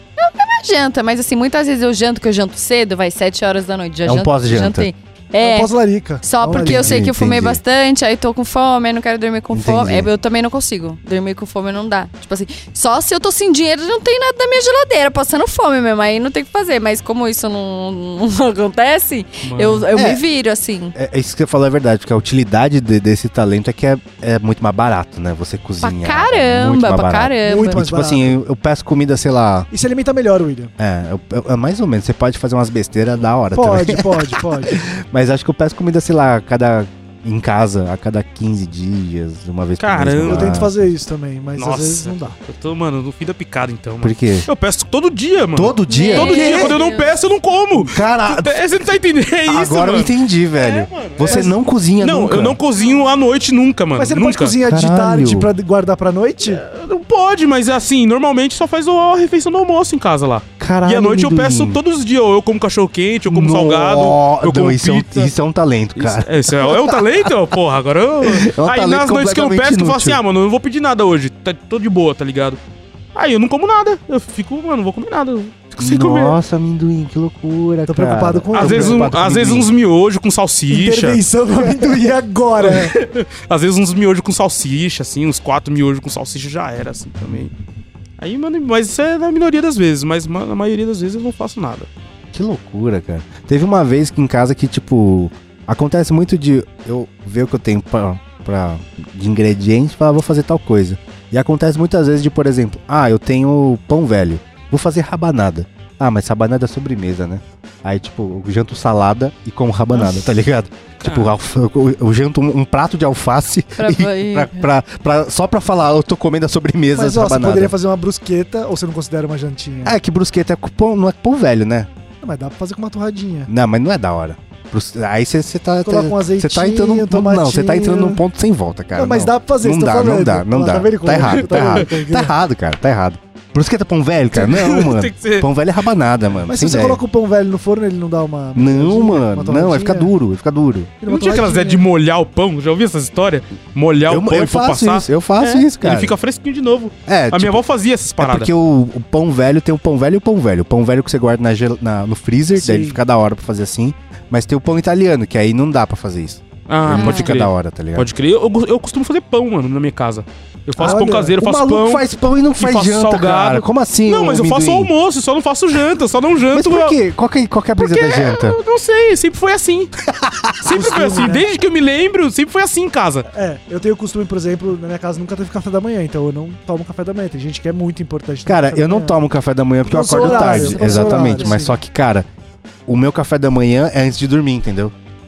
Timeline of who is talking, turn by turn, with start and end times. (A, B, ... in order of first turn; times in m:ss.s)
0:00.2-0:21.0 A
0:04.0-0:04.9 B
0:05.4-0:07.0 C
0:06.6-0:07.6 B
0:09.5-0:10.1 B
0:19.4-0:19.9 D
0:19.9-0:20.2 B
0:21.0-0:29.7 B
0:25.8-0:27.8 A
0:27.4-0:28.4 C
0:29.7-0:30.7 C
0:30.8-0:40.7 B
0:33.5-0:34.8 C
0:39.8-0:40.7 D
0:40.3-0:42.4 C
0:41.6-0:54.6 D
0:44.0-0:44.5 B
0:45.5-0:46.7 B
0:45.9-0:47.1 A
0:46.2-0:46.8 C
0:47.7-0:48.6 B
0:49.5-0:52.6 B
0:51.2-0:51.6 C
0:52.8-0:53.2 A
0:54.0-0:56.6 C
0:54.6-0:55.5 B
0:56.4-1:05.3 D
1:00.6-1:01.8 B
1:03.3-1:07.0 B
1:06.0-1:12.6 D
1:08.2-1:10.2 B
1:13.2-1:16.4 D
1:15.8-1:19.7 B
1:17.9-1:19.1 C
1:18.5-1:21.2 D
1:20.7-1:22.9 C
1:22.6-1:27.5 D
1:28.2-1:31.9 D
1:32.3-1:57.7 B
1:51.0-1:51.3 D
1:53.8-1:54.7 A
1:56.9-2:00.0 C
1:59.8-2:01.9 B
2:02.2-2:03.5 C
2:03.5-2:17.0 B
2:05.8-2:08.2 C
2:09.0-2:12.3 C
2:11.3-2:11.9 D
2:14.4-2:15.5 D
2:16.5-2:20.1 C
2:18.6-2:20.9 B
2:21.0-2:21.8 C
2:21.1-2:28.5 D
2:24.1-2:26.1 B
2:27.1-2:27.6 B
2:28.2-2:38.1 B
2:32.6-2:33.0 C
2:36.7-2:42.1 D
2:36.9-2:37.3 A
2:40.8-2:41.4 C
2:40.8-2:44.9 B
2:42.6-2:47.0 D
2:46.5-2:48.6 B
2:47.8-2:49.9 D
2:50.1-2:50.9 B
2:50.6-2:53.3 D
2:50.7-2:51.5 C
2:53.3-2:59.2 C
2:58.5-3:02.3 B
2:59.9-3:01.7 C
3:00.0-3:01.7 A
3:02.9-3:04.9 B